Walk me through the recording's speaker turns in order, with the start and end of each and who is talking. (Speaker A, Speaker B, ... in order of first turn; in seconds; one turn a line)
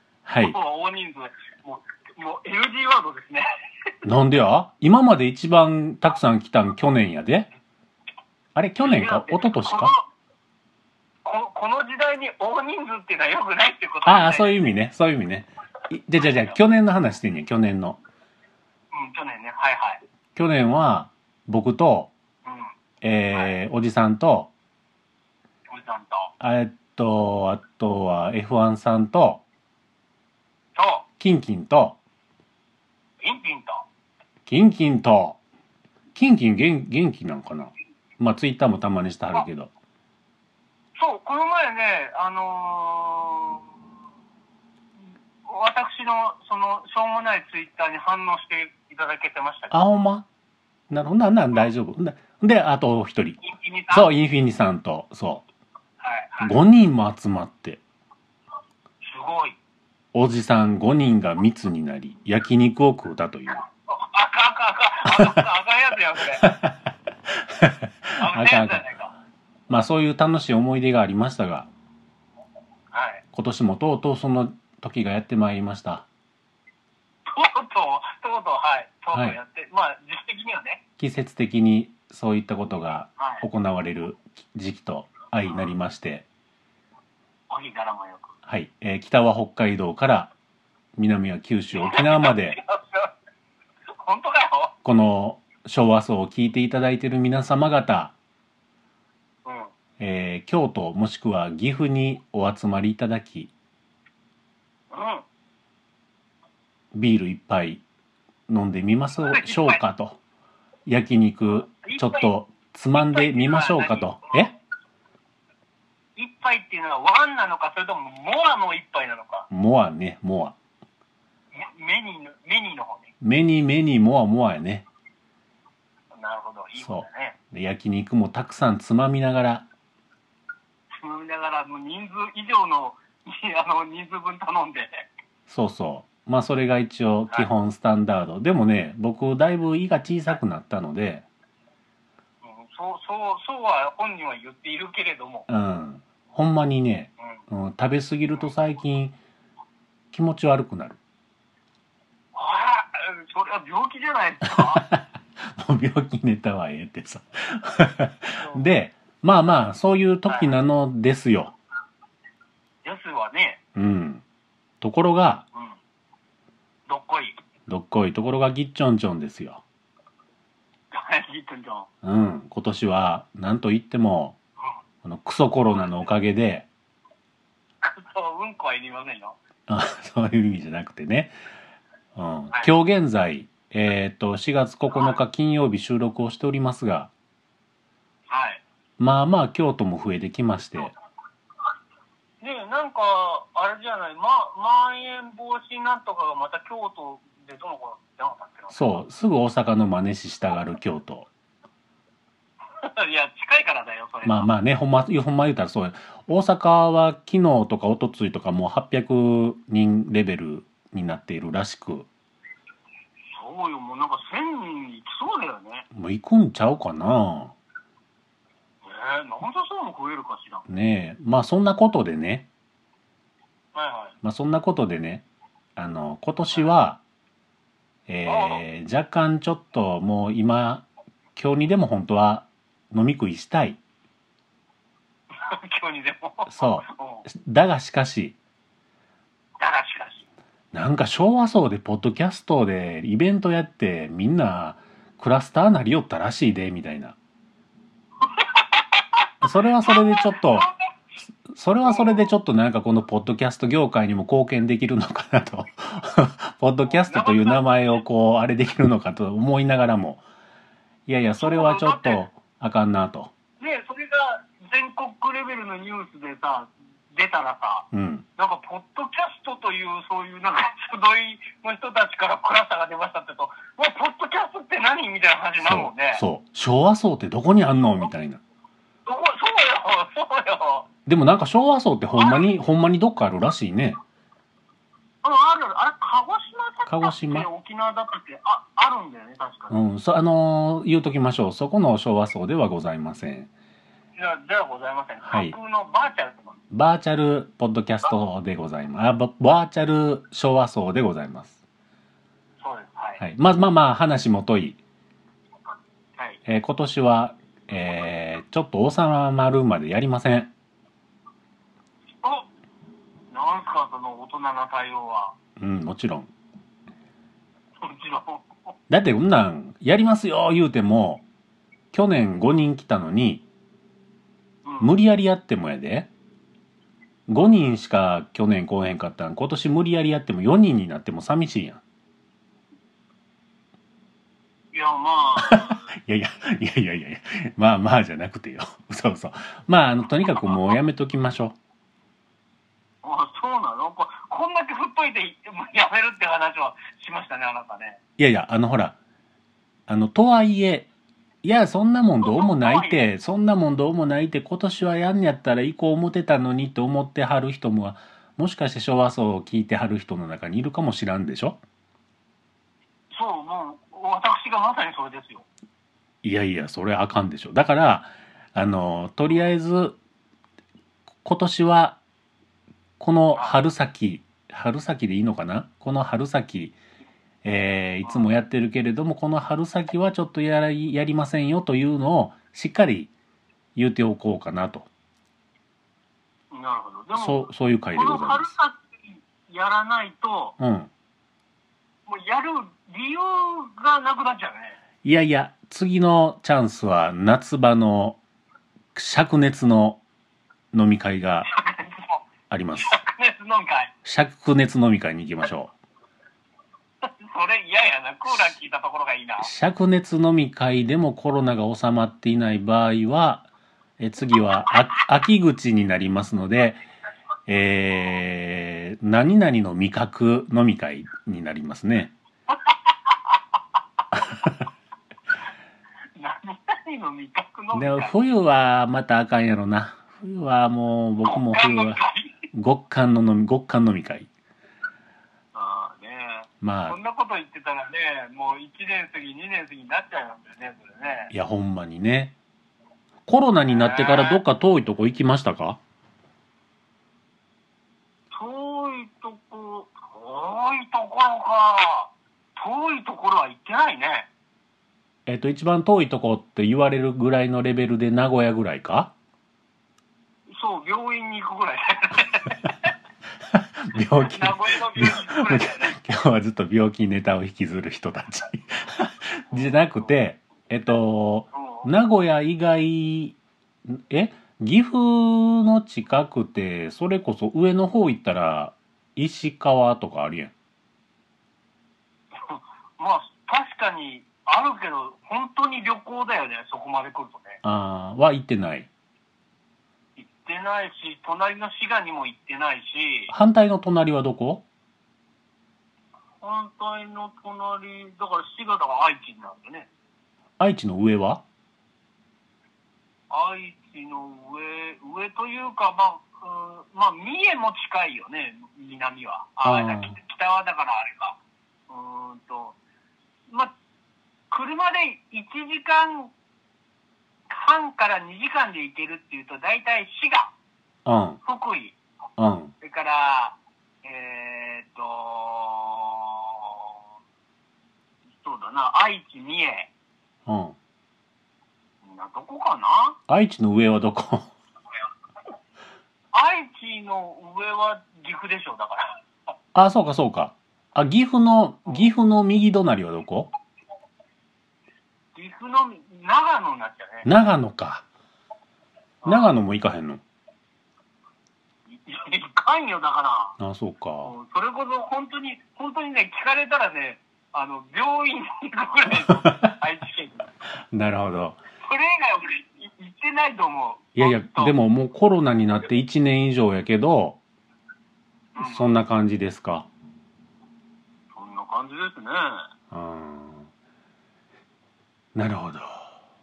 Speaker A: 0.2-0.6
Speaker B: 0.4-3.5
Speaker A: 4.0-7.5
Speaker A: 8.5-9.9
Speaker B: 8.8-10.1
Speaker B: 11.2-14.6
Speaker A: 14.1-18.0
Speaker B: 18.9-20.0
Speaker A: 20.3-22.1
Speaker B: 22.4-22.7
Speaker A: 23.0-24.5
Speaker B: 25.7-26.3
Speaker A: 26.4-29.4
Speaker B: 30.8-31.0
Speaker A: 31.2-32.0
Speaker B: 33.2-33.8
Speaker A: 34.5-35.4
Speaker A: 36.1-39.7
Speaker B: 41.0-43.6
Speaker B: 45.4-49.7
Speaker A: 49.7-50.2
Speaker A: 50.9-53.4
Speaker B: 53.4-54.1
Speaker A: 53.9-55.5
Speaker B: 56.0-56.5
Speaker A: 56.4-57.8
Speaker B: 59.0-59.6
Speaker A: 60.1-63.6
Speaker B: 63.9-66.5
Speaker A: 66.4-66.7
Speaker A: 67.5-68.8
Speaker B: 68.2-69.1
Speaker A: 69.7-71.7
Speaker B: 72.9-73.2
Speaker A: 73.3-76.0
Speaker B: 77.3-80.8
Speaker A: 81.0-86.2
Speaker B: 83.2-83.4
Speaker B: 87.5-88.3
Speaker A: 88.5-90.3
Speaker A: 91.0-92.6
Speaker B: 91.7-93.1
Speaker B: 94.0-94.7
Speaker A: 94.8-98.1
Speaker B: 99.4-99.7
Speaker A: 100.0-103.5
Speaker B: 104.9-105.2
Speaker A: 106.9-107.8
Speaker A: 108.5-110.2
Speaker B: 109.2-109.8
Speaker A: 110.8-114.5
Speaker B: 111.8-112.3
Speaker B: 112.9-114.4
Speaker B: 116.2-119.5
Speaker A: 119.5-120.5
Speaker B: 121.5-123.1
Speaker A: 123.2-124.8
Speaker B: 126.1-127.3
Speaker A: 126.8-129.7
Speaker B: 131.0-135.0
Speaker A: 135.5-141.2
Speaker B: 142.4-145.5
Speaker A: 145.5-149.2
Speaker A: 150.1-151.0
Speaker B: 152.3-154.8
Speaker A: 154.5-155.0
Speaker A: 155.6-161.6
Speaker B: 158.4-158.7
Speaker B: 160.3-160.5
Speaker B: 162.8-163.6
Speaker A: 163.7-164.2
Speaker A: 164.8-165.4
Speaker B: 166.9-167.4
Speaker A: 167.7-169.6
Speaker B: 170.9-171.9
Speaker A: 172.0-174.3
Speaker A: 175.0-176.7
Speaker B: 177.8-179.4
Speaker A: 179.7-181.4
Speaker A: 182.2-187.1
Speaker B: 188.3-188.6
Speaker A: 189.0-190.9
Speaker B: 192.4-199.0
Speaker A: 198.7-201.3
Speaker B: 202.8-204.5
Speaker A: 204.2-212.1
Speaker B: 213.3-215.9
Speaker A: 215.9-217.5
Speaker B: 218.8-220.7
Speaker A: 220.7-222.5
Speaker B: 223.7-224.1
Speaker A: 224.2-225.2
Speaker A: 225.8-227.0
Speaker A: 228.1-233.8
Speaker B: 228.2-228.6
Speaker B: 235.4-237.2
Speaker A: 236.5-238.3
Speaker B: 239.6-240.2
Speaker A: 240.7-247.2
Speaker B: 248.2-249.1
Speaker A: 249.4-250.7
Speaker B: 249.8-250.9
Speaker A: 251.3-260.2
Speaker B: 251.8-252.3
Speaker B: 256.8-257.6
Speaker A: 261.1-263.3
Speaker B: 261.4-262.2
Speaker B: 263.6-267.9
Speaker A: 267.9-268.2
Speaker B: 268.4-276.2
Speaker A: 275.6-278.4
Speaker B: 279.1-280.9
Speaker A: 281.1-284.0
Speaker B: 282.1-282.5
Speaker B: 285.2-289.8
Speaker A: 286.9-287.5
Speaker A: 289.7-293.5
Speaker B: 294.1-296.6
Speaker A: 295.2-295.5
Speaker A: 296.7-301.6
Speaker B: 302.6-303.2
Speaker A: 303.2-304.8
Speaker A: 306.5-310.5
Speaker B: 312.2-312.5
Speaker B: 313.3-315.3
Speaker A: 315.6-316.3
Speaker B: 317.8-318.5
Speaker A: 318.9-321.2
Speaker A: 321.9-323.4
Speaker B: 324.6-324.9
Speaker A: 324.8-326.1
Speaker A: 327.3-331.8
Speaker B: 334.7-335.8
Speaker A: 335.4-341.6
Speaker B: 343.0-348.0
Speaker A: 348.2-348.9
Speaker A: 349.9-350.9
Speaker A: 351.4-361.6
Speaker B: 352.2-353.0
Speaker B: 363.1-365.4
Speaker A: 366.2-370.0
Speaker A: 371.2-372.0
Speaker A: 373.0-376.8
Speaker A: 377.4-383.1
Speaker A: 383.7-384.9
Speaker B: 386.5-390.6
Speaker A: 387.1-388.5
Speaker A: 390.6-390.9
Speaker B: 392.1-394.8
Speaker A: 395.0-398.2
Speaker A: 398.9-400.0
Speaker A: 400.7-401.5
Speaker B: 401.4-402.2
Speaker A: 402.5-403.0
Speaker B: 402.8-403.9
Speaker A: 404.0-405.7
Speaker B: 407.0-409.5
Speaker A: 408.2-408.5
Speaker A: 409.4-413.5
Speaker A: 414.0-416.8
Speaker A: 417.5-422.1
Speaker B: 426.1-428.1
Speaker A: 427.7-432.0
Speaker B: 431.2-432.3
Speaker A: 432.5-434.3
Speaker B: 435.5-441.3
Speaker A: 436.6-437.0
Speaker A: 441.3-442.4
Speaker A: 443.3-445.8
Speaker B: 443.7-444.4
Speaker B: 448.3-454.3
Speaker A: 455.3-459.1
Speaker B: 460.5-462.7
Speaker A: 463.5-480.5
Speaker B: 464.2-466.0
Speaker B: 469.5-470.0
Speaker B: 471.5-471.9
Speaker B: 482.4-487.6
Speaker A: 487.6-488.9
Speaker B: 490.2-493.3
Speaker A: 493.3-494.6
Speaker B: 496.4-499.9
Speaker A: 500.6-501.4
Speaker B: 503.3-511.4
Speaker A: 509.6-510.2
Speaker B: 511.9-512.8
Speaker B: 514.5-516.3
Speaker B: 517.5-520.5
Speaker A: 521.0-521.4
Speaker B: 521.4-522.0
Speaker A: 522.4-522.7
Speaker B: 522.8-526.9
Speaker B: 528.4-529.9
Speaker A: 530.5-530.8
Speaker B: 532.0-533.2
Speaker A: 533.3-534.5
Speaker B: 536.3-539.2
Speaker A: 539.7-543.5
Speaker B: 545.3-547.3
Speaker A: 547.2-548.0
Speaker B: 549.2-549.5
Speaker A: 549.2-550.2
Speaker B: 551.9-553.5
Speaker A: 553.6-554.3
Speaker B: 554.2-560.5
Speaker A: 560.9-561.6
Speaker B: 561.8-564.8
Speaker A: 564.1-567.4
Speaker B: 568.5-569.0
Speaker A: 568.6-569.9
Speaker B: 571.3-572.6
Speaker A: 572.9-573.7
Speaker A: 575.3-576.1